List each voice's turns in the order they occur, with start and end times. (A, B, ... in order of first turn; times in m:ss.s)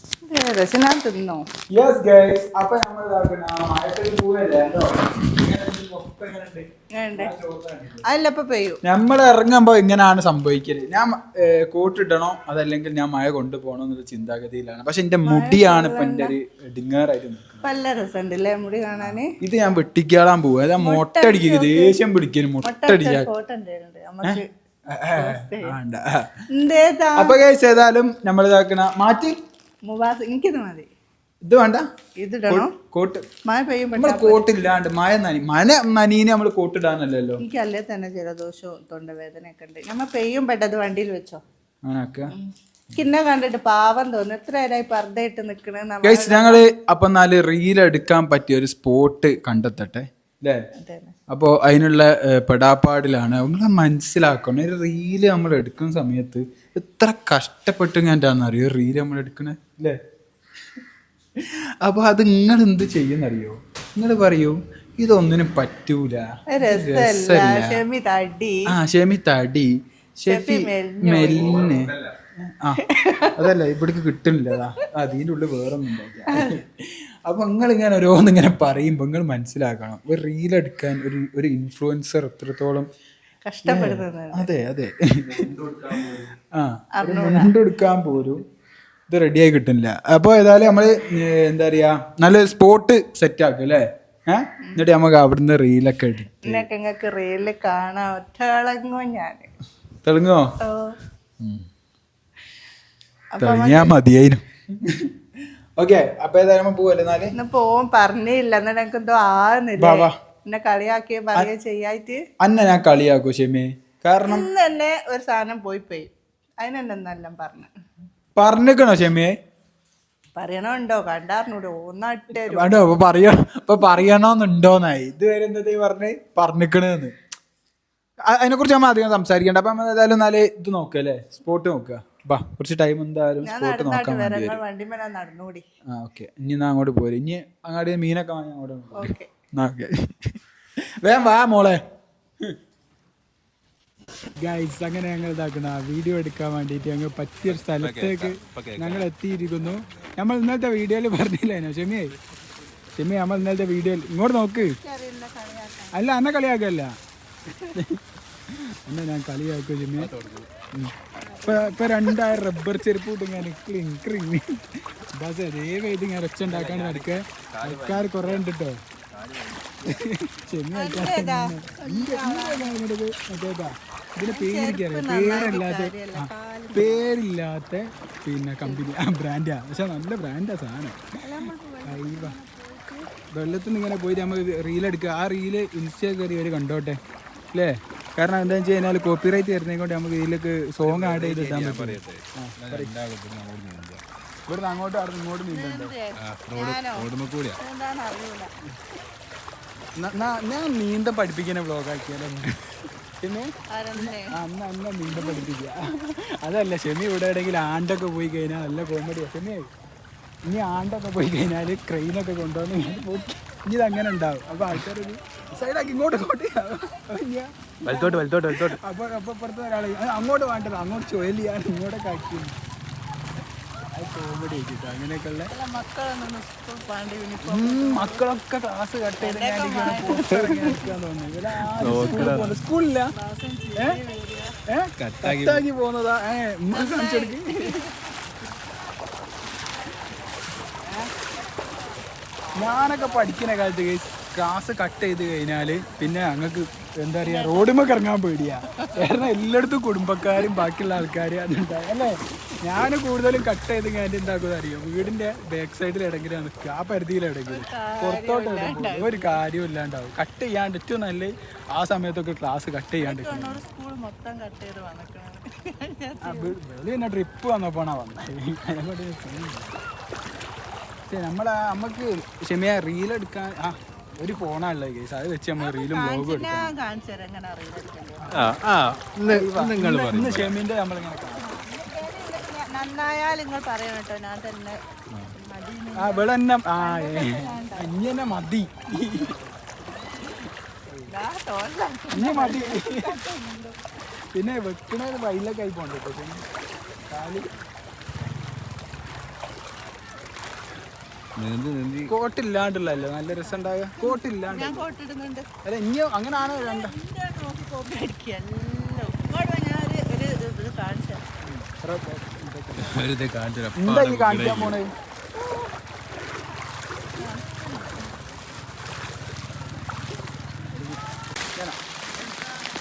0:00.3-0:01.4 A
0:01.7-0:08.1 B
0:07.0-0:07.3 A
0:08.0-0:08.8 A
0:08.8-0:17.6 B
0:15.2-0:16.3 A
0:17.6-0:19.3 A
0:19.0-0:23.3 B
0:20.8-0:22.0 A
0:22.6-0:24.4 A
0:24.9-0:26.3 B
0:25.1-0:25.8 A
0:26.5-0:27.4 A
0:27.2-0:29.4 B
0:29.9-0:30.9 A
0:31.4-0:31.8 B
0:32.2-0:32.7 A
0:32.5-0:33.2 B
0:33.4-0:34.5 A
0:34.0-0:37.4 B
0:37.4-0:41.4 A
0:41.8-0:42.3 B
0:42.3-0:46.6 A
0:46.0-0:50.6 B
0:50.8-0:51.1 A
0:51.3-1:00.0 B
1:01.4-1:07.8 B
1:06.5-1:08.6 A
1:08.7-1:12.8 B
1:10.3-1:11.6 A
1:11.3-1:12.1 C
1:12.8-1:13.4 A
1:13.4-1:22.9 B
1:16.3-1:16.6 A
1:23.4-1:24.5 A
1:23.6-1:28.4 B
1:25.4-1:26.2 C
1:27.0-1:27.6 A
1:29.1-1:36.6 B
1:36.4-1:39.5 A
1:40.0-1:40.5 B
1:40.6-1:41.0 A
1:41.4-1:41.6 B
1:43.4-1:43.9 A
1:43.4-1:45.1 B
1:45.8-1:47.3 B
1:47.3-1:52.2 A
1:49.8-1:50.1 B
1:52.4-1:54.5 B
1:54.2-1:56.1 A
1:56.6-1:57.7 A
1:58.4-1:59.3 B
2:00.3-2:02.8 A
2:02.4-2:07.1 B
2:08.2-2:14.6 B
2:13.4-2:15.6 A
2:15.9-2:20.4 B
2:18.9-2:19.3 A
2:21.0-2:21.8 B
2:24.4-2:32.1 B
2:27.4-2:29.1 C
2:32.9-2:34.8 B
2:34.8-2:36.0 A
2:35.9-2:36.9 B
2:37.7-2:38.0 B
2:38.5-2:40.1 B
2:40.0-2:40.5 C
2:41.2-2:41.8 A
2:41.4-2:44.6 B
2:45.2-2:48.8 B
2:46.4-2:48.5 C
2:49.1-2:50.0 C
2:49.8-3:01.0 B
2:50.7-2:52.8 A
2:54.3-2:57.0 A
3:01.2-3:03.1 A
3:01.9-3:02.4 B
3:03.3-3:07.0 B
3:07.5-3:12.9 B
3:10.8-3:14.0 C
3:14.5-3:15.9 B
3:15.5-3:18.5 A
3:16.2-3:17.6 C
3:20.0-3:22.7 B
3:23.2-3:29.7 B
3:23.7-3:24.3 A
3:25.2-3:25.5 A
3:30.4-3:42.6 B
3:37.8-3:38.8 C
3:43.9-3:45.5 B
3:45.5-3:48.2 A
3:47.4-3:53.1 B
3:49.2-3:50.9 A
3:51.8-3:52.6 C
3:51.9-3:52.5 A
3:53.1-3:54.6 A
3:54.7-3:57.8 B
3:55.0-3:55.6 C
3:56.7-3:58.2 A
4:02.6-4:23.6 B
4:02.6-4:03.3 A
4:07.2-4:07.8 A
4:08.7-4:09.1 A
4:17.5-4:19.4 A
4:23.0-4:26.6 A
4:26.2-4:29.8 B
4:31.1-4:36.7 B
4:35.6-4:38.4 A
4:38.3-4:38.6 B
4:38.3-4:40.6 C
4:39.2-4:41.6 B
4:41.4-4:44.8 A
4:45.3-4:47.9 A
4:46.0-4:49.4 B
4:51.1-4:53.8 A
4:52.1-4:53.1 B
4:54.3-4:56.5 B
4:57.1-4:57.5 B
5:01.4-5:02.1 C
5:02.1-5:04.9 B
5:03.4-5:05.5 A
5:05.6-5:06.9 B
5:06.3-5:11.2 A
5:11.4-5:13.1 B
5:12.8-5:14.8 C
5:13.8-5:14.9 B
5:15.4-5:15.7 A
5:17.2-5:18.2 A